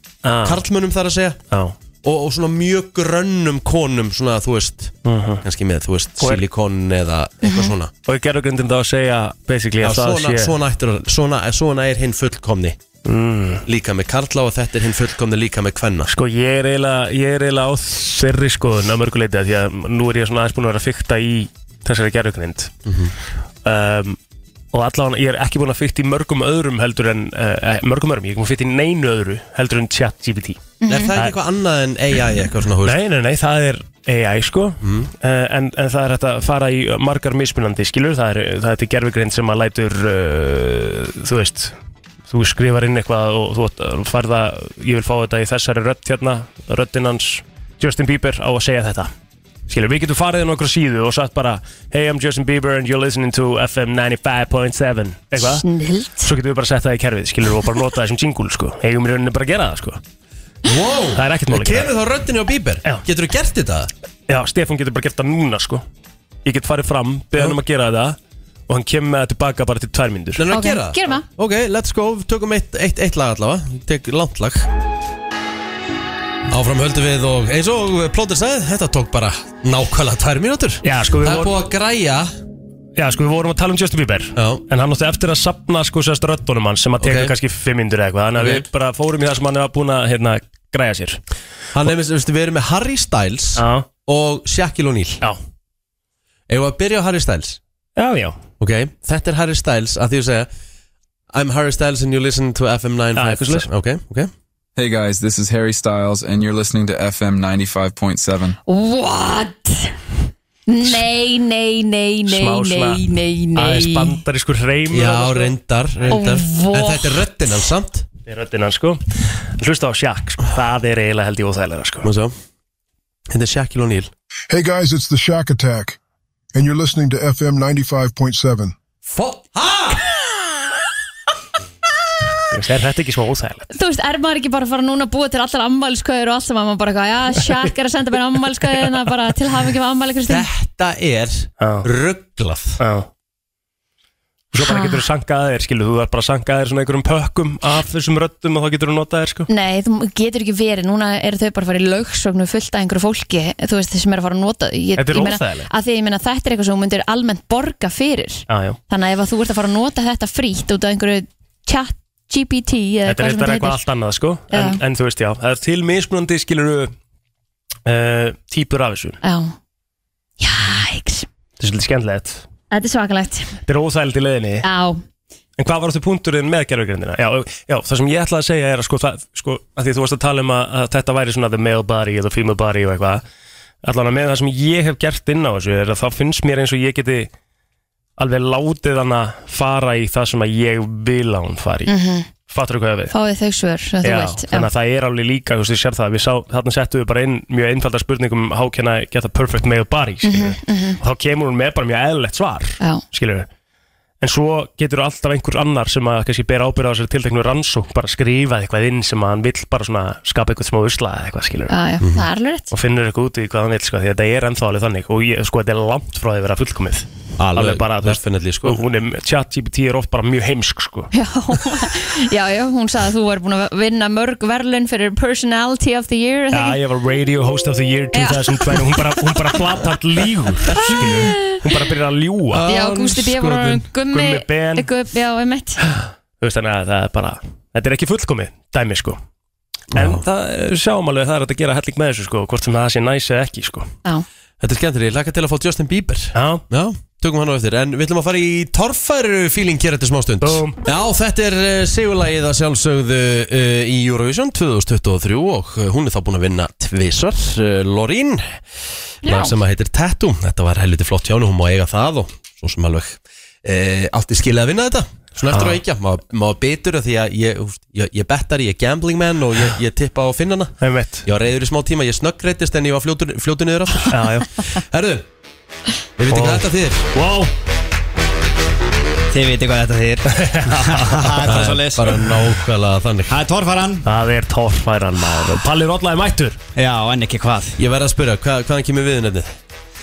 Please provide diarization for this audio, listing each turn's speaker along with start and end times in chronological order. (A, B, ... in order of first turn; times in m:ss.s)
0:00.2-0:00.6 A
0:00.4-0:01.4 B
0:02.0-0:07.9 B
0:05.0-0:05.4 A
0:07.4-0:07.7 C
0:08.1-0:10.5 A
0:09.8-0:12.8 B
0:13.0-0:13.6 A
0:13.7-0:16.1 B
0:16.1-0:22.7 A
0:22.9-0:23.1 B
0:23.6-0:24.2 A
0:24.7-0:30.6 A
0:30.8-0:31.1 C
0:30.9-0:33.0 B
0:32.8-0:41.8 A
0:34.8-0:35.1 B
0:42.3-0:49.1 A
0:49.7-0:55.7 A
0:55.4-0:56.3 C
0:56.2-1:00.0 A
1:00.6-1:03.9 B
1:01.2-1:01.9 A
1:04.3-1:05.8 A
1:06.4-1:08.2 A
1:08.7-1:10.4 A
1:10.4-1:14.7 B
1:10.5-1:11.2 C
1:16.5-1:22.3 B
1:20.8-1:21.5 A
1:23.0-1:31.2 A
1:24.4-1:24.6 B
1:27.0-1:27.3 B
1:28.4-1:28.6 B
1:31.7-1:35.2 B
1:33.6-1:33.9 A
1:36.5-1:37.6 B
1:38.0-1:38.4 A
1:38.6-1:40.5 B
1:41.3-1:44.3 B
1:43.2-1:43.7 A
1:44.8-1:48.6 D
1:48.7-1:49.9 C
1:50.7-1:54.2 C
1:52.3-1:53.0 A
1:53.5-1:55.5 A
1:54.9-1:58.0 B
1:56.1-1:57.2 C
1:58.3-2:02.1 A
2:02.0-2:02.4 B
2:03.3-2:04.1 B
2:04.5-2:06.0 E
2:06.6-2:08.7 E
2:09.1-2:10.0 B
2:12.5-2:13.7 A
2:13.7-2:20.5 C
2:20.3-2:22.8 B
2:21.6-2:21.9 A
2:22.8-2:23.1 A
2:24.5-2:29.5 A
2:24.6-2:25.0 C
2:29.5-2:43.8 C
2:35.0-2:35.7 A
2:38.5-2:38.8 A
2:43.1-2:46.9 A
2:44.5-2:44.8 C
2:47.9-2:49.2 A
2:49.2-2:49.6 C
2:50.4-2:51.3 C
2:51.6-2:52.4 A
2:52.7-2:53.6 C
2:53.7-2:54.6 A
2:54.6-2:55.0 C
2:55.6-3:03.2 A
3:03.8-3:07.3 A
3:08.2-3:13.1 A
3:11.9-3:12.3 C
3:13.1-3:14.7 C
3:14.0-3:23.5 A
3:20.2-3:21.0 C
3:24.2-3:31.7 A
3:31.7-3:32.7 C
3:32.7-3:41.1 A
3:37.4-3:38.8 B
3:41.1-3:46.8 C
3:46.5-3:54.9 A
3:48.1-3:48.8 C
3:50.7-3:51.6 C
3:52.6-3:55.8 C
3:56.4-3:59.2 A
3:59.9-4:00.2 B
3:59.9-4:03.9 A
4:04.6-4:18.6 B
4:06.4-4:06.6 A
4:10.4-4:10.8 A
4:19.2-4:35.3 B
4:19.2-4:19.5 C
4:25.5-4:25.8 A
4:30.8-4:31.3 A
4:34.0-4:34.5 A
4:36.2-4:37.1 B
4:36.3-4:37.5 A
4:39.3-4:42.2 F
4:40.4-4:41.6 A
4:41.5-4:43.4 B
4:43.3-4:44.1 F
4:44.0-4:46.6 A
4:46.8-4:47.8 F
4:47.8-4:49.6 B